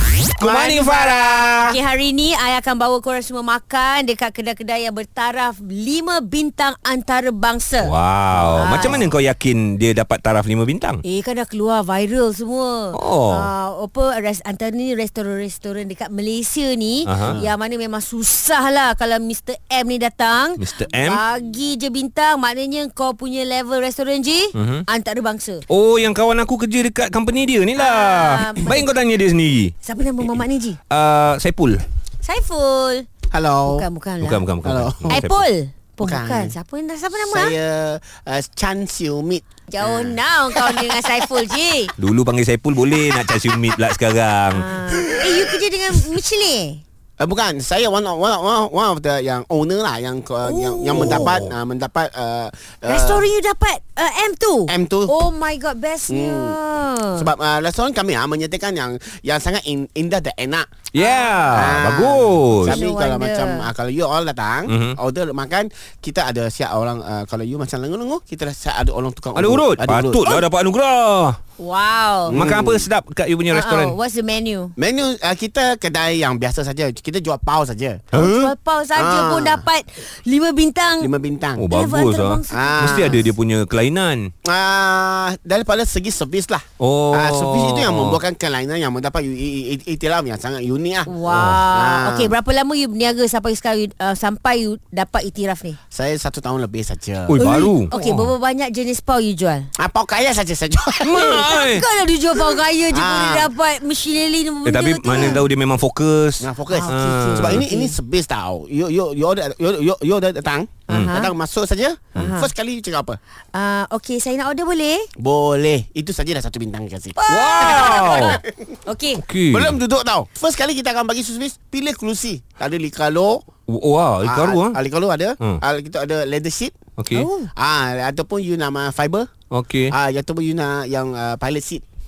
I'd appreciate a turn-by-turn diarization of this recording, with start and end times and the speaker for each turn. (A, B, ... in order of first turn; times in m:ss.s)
0:00.4-0:01.7 A
0:00.4-0:01.8 B
0:01.7-0:08.0 C
0:07.8-0:11.0 A
0:08.4-0:09.1 B
0:08.5-0:09.0 C
0:11.0-0:25.6 C
0:12.9-0:13.5 A
0:17.0-0:17.4 A
0:20.6-0:21.2 A
0:24.5-0:24.8 A
0:25.7-0:29.7 A
0:27.8-0:28.9 C
0:29.8-0:30.8 C
0:30.9-0:31.8 A
0:32.2-0:33.1 C
0:33.3-0:33.8 B
0:33.7-0:34.4 C
0:34.2-0:35.4 A
0:34.6-0:35.2 B
0:35.1-0:37.6 C
0:36.0-0:36.6 B
0:37.2-0:41.0 B
0:39.7-0:41.9 C
0:42.0-0:44.7 A
0:44.5-0:46.8 C
0:44.9-0:45.4 B
0:47.2-0:53.3 B
0:50.4-0:51.3 C
0:51.0-0:51.5 A
0:52.9-0:57.3 C
0:54.7-0:55.2 B
0:56.1-0:56.6 B
0:57.1-1:00.9 B
1:00.9-1:02.8 A
1:01.0-1:01.6 C
1:01.5-1:10.3 B
1:02.7-1:03.7 C
1:04.7-1:05.0 A
1:09.3-1:11.4 A
1:11.6-1:12.4 C
1:12.3-1:12.9 B
1:12.3-1:14.0 A
1:13.5-1:14.8 C
1:14.8-1:18.1 B
1:18.1-1:21.1 C
1:18.2-1:18.5 A
1:19.0-1:19.6 B
1:21.0-1:21.7 B
1:21.6-1:24.3 A
1:21.7-1:23.2 C
1:22.5-1:23.3 B
1:24.4-1:31.2 B
1:26.8-1:28.2 A
1:31.1-1:35.8 C
1:31.3-1:31.6 A
1:31.7-1:32.4 B
1:35.9-1:38.3 B
1:37.3-1:37.9 A
1:37.4-1:39.7 C
1:39.8-1:41.4 B
1:41.0-1:41.9 A
1:41.1-1:45.4 C
1:42.9-1:43.5 B
1:44.6-1:47.7 A
1:45.1-1:45.4 B
1:46.4-1:53.2 B
1:46.7-1:48.0 C
1:50.9-1:51.3 C
1:52.2-1:52.5 C
1:53.5-1:55.1 C
1:55.2-1:58.8 B
1:57.2-1:58.3 C
1:57.3-1:58.4 A
1:58.8-1:59.2 C
1:59.2-1:59.8 A
1:59.5-2:03.4 B
2:03.7-2:04.8 A
2:04.2-2:06.8 B
2:07.0-2:07.3 A
2:07.1-2:07.5 C
2:07.5-2:09.3 B
2:09.5-2:09.9 A
2:09.9-2:11.8 B